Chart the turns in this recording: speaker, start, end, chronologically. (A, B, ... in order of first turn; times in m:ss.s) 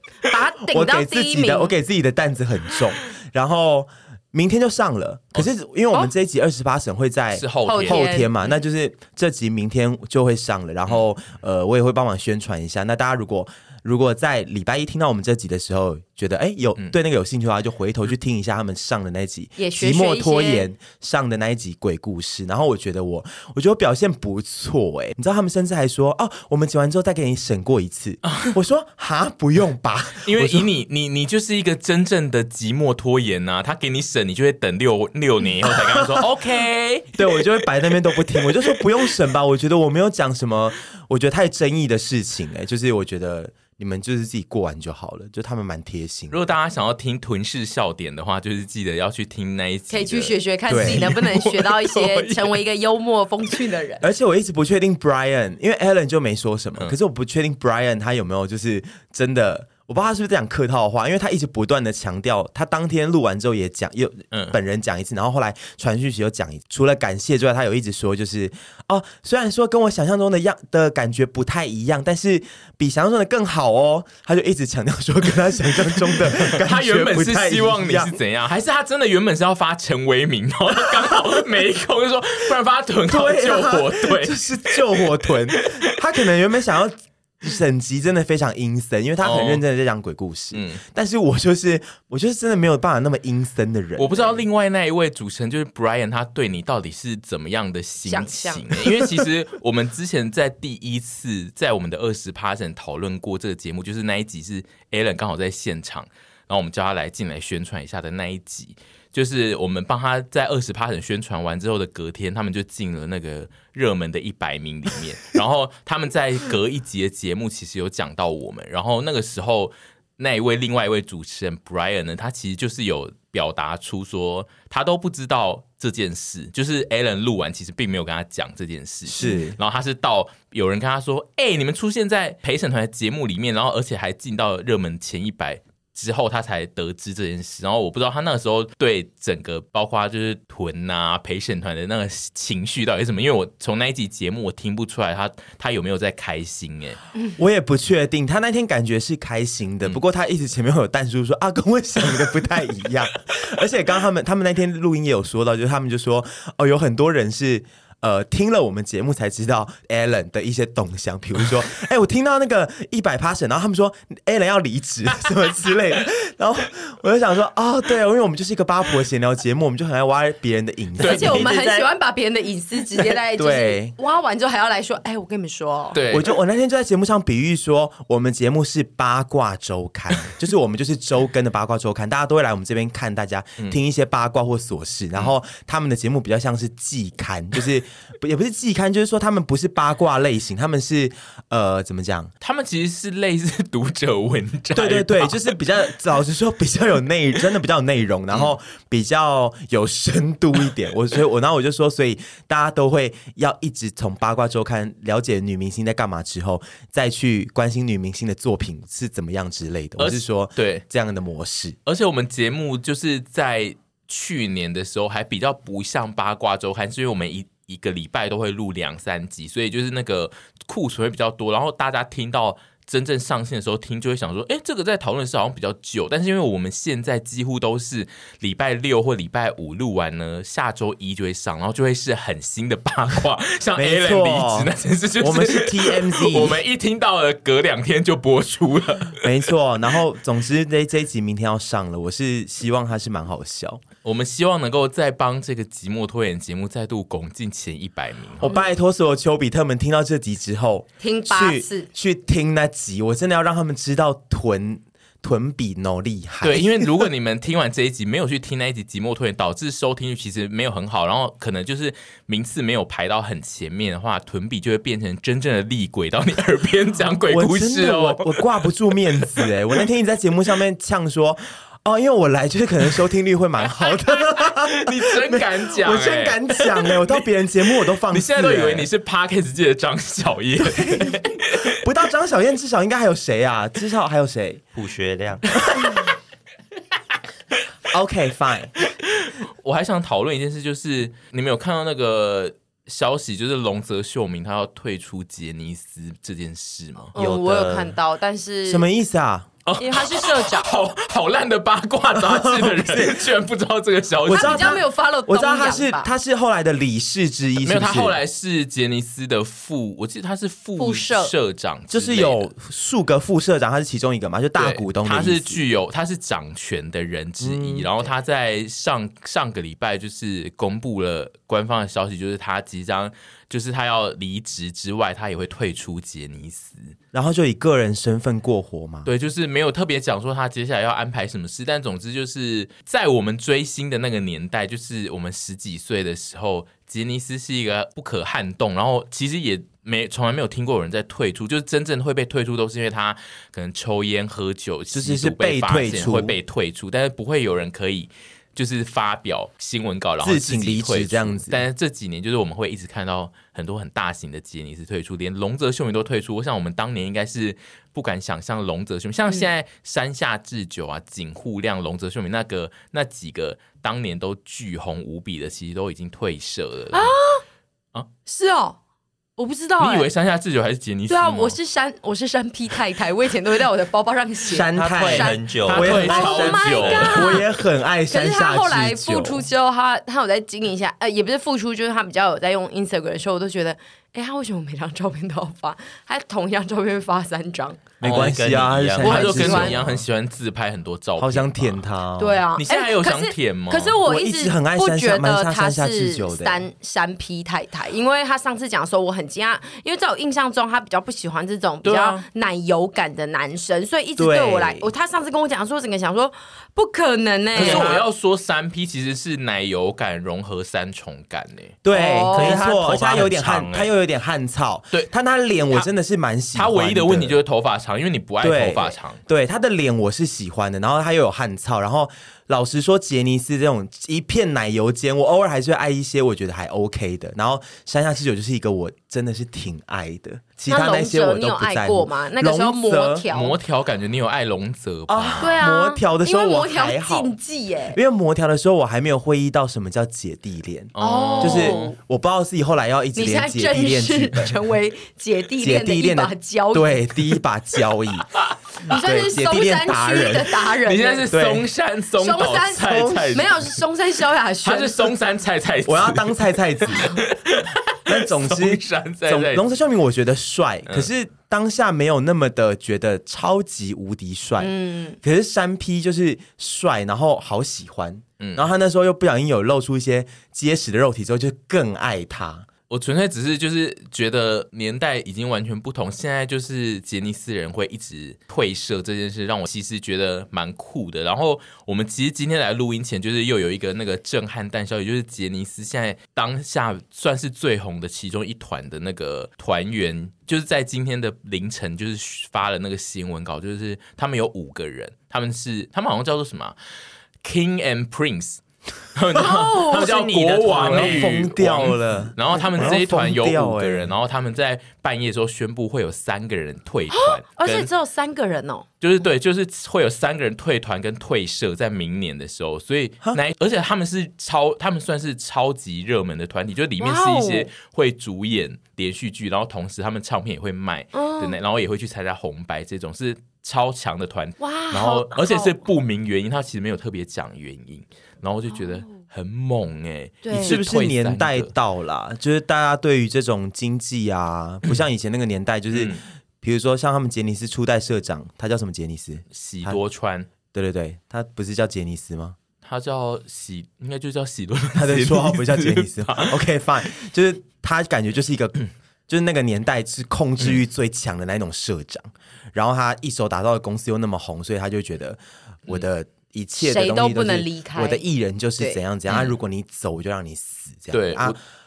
0:00.2-0:01.7 A
0:00.7-0:30.7 B
0:07.3-0:08.1 C
0:07.7-0:08.5 A
0:19.6-0:20.7 A
0:28.3-0:28.6 C
0:30.2-0:37.4 C
0:35.6-0:36.3 B
0:37.2-0:46.4 B
0:46.3-0:52.6 C
0:49.9-0:54.0 A
0:50.7-0:51.1 B
0:54.0-1:18.2 B
1:04.3-1:04.6 C
1:16.2-1:25.7 C
1:23.1-1:34.4 B
1:29.2-1:29.6 C
1:30.5-1:30.8 C
1:34.0-2:27.0 C
1:38.1-1:38.7 A
2:09.1-2:09.6 B
2:27.4-2:51.5 B
2:51.0-2:51.4 C
2:51.0-2:56.0 A
2:51.1-2:51.9 D
2:53.4-2:54.0 B
2:55.9-2:56.3 C
2:56.1-3:12.3 B
3:12.4-3:15.5 C
3:14.8-3:31.8 B
3:30.0-3:30.8 C
3:31.9-3:59.3 C
3:53.8-3:56.6 B
3:59.2-4:03.8 B
4:04.0-4:08.5 C
4:08.4-4:17.1 B
4:11.0-4:11.9 A
4:16.4-4:28.4 C
4:27.3-4:38.9 B
4:34.4-4:37.2 C
4:38.1-4:41.8 C
4:40.6-4:44.6 B
4:44.8-4:45.7 D
4:47.9-4:48.7 B
4:49.2-4:57.1 C
4:57.2-4:58.0 D
4:57.2-4:58.9 A
4:58.7-4:59.5 B
4:59.7-5:04.8 C
4:59.8-5:00.7 A
5:02.2-5:03.3 B
5:04.2-5:08.2 B
5:04.3-5:06.1 A
5:07.6-5:12.5 C
5:10.8-5:11.3 A
5:11.9-5:15.6 B
5:14.6-5:27.0 C
5:17.4-5:17.9 B
5:27.1-5:29.1 B
5:29.1-6:07.1 C
5:44.9-5:46.4 B
5:50.2-5:51.6 B
6:06.9-6:07.4 A
6:08.3-6:08.8 A
6:09.4-6:10.1 A
6:09.8-6:11.6 C
6:11.1-6:17.5 A
6:14.5-6:19.5 B
6:14.8-6:17.3 D
6:15.7-6:17.3 C
6:18.1-6:27.8 A
6:28.0-6:29.4 D
6:28.0-6:30.0 B
6:29.0-6:31.8 C
6:29.0-6:29.8 A
6:31.2-6:32.4 B
6:32.2-6:48.0 A
6:32.6-6:34.0 C
6:34.0-6:36.7 B
6:41.8-6:42.2 C
6:44.2-6:44.9 B
6:47.6-6:51.8 C
6:47.6-6:47.9 D
6:51.8-6:57.4 B
6:51.9-6:52.6 A
6:52.3-6:53.9 D
6:56.6-6:59.2 C
6:58.4-7:13.3 B
7:10.7-7:13.6 A
7:13.3-7:15.6 C
7:15.1-7:17.3 B
7:15.4-7:18.0 A
7:17.9-7:24.6 B
7:21.0-7:21.9 C
7:21.0-7:21.9 A
7:23.2-7:27.0 A
7:25.6-7:28.3 B
7:28.9-7:31.3 A
7:28.9-7:30.6 B
7:30.8-7:33.8 C
7:31.3-7:31.7 B
7:32.2-7:35.1 A
7:34.6-7:39.6 C
7:35.9-7:37.2 B
7:38.1-7:52.7 B
7:44.6-7:45.2 A
7:48.4-7:48.7 C
7:52.9-8:16.8 C
8:17.4-8:18.6 C
8:19.2-8:27.9 C
8:19.4-8:20.2 A
8:19.9-8:21.4 D
8:20.7-8:24.1 B
8:27.1-8:28.9 A
8:29.0-8:51.7 C
8:37.0-8:37.7 A
8:41.1-8:41.6 A
8:44.6-8:45.8 A
8:48.7-8:49.0 A
8:50.4-8:50.8 A
8:50.5-9:00.0 B
8:55.9-8:56.2 C
8:59.5-9:00.5 C
9:00.7-9:02.6 B
9:02.8-9:06.6 C
9:05.0-9:21.6 B
9:16.8-9:18.2 A
9:19.3-9:19.6 C
9:21.1-9:21.6 C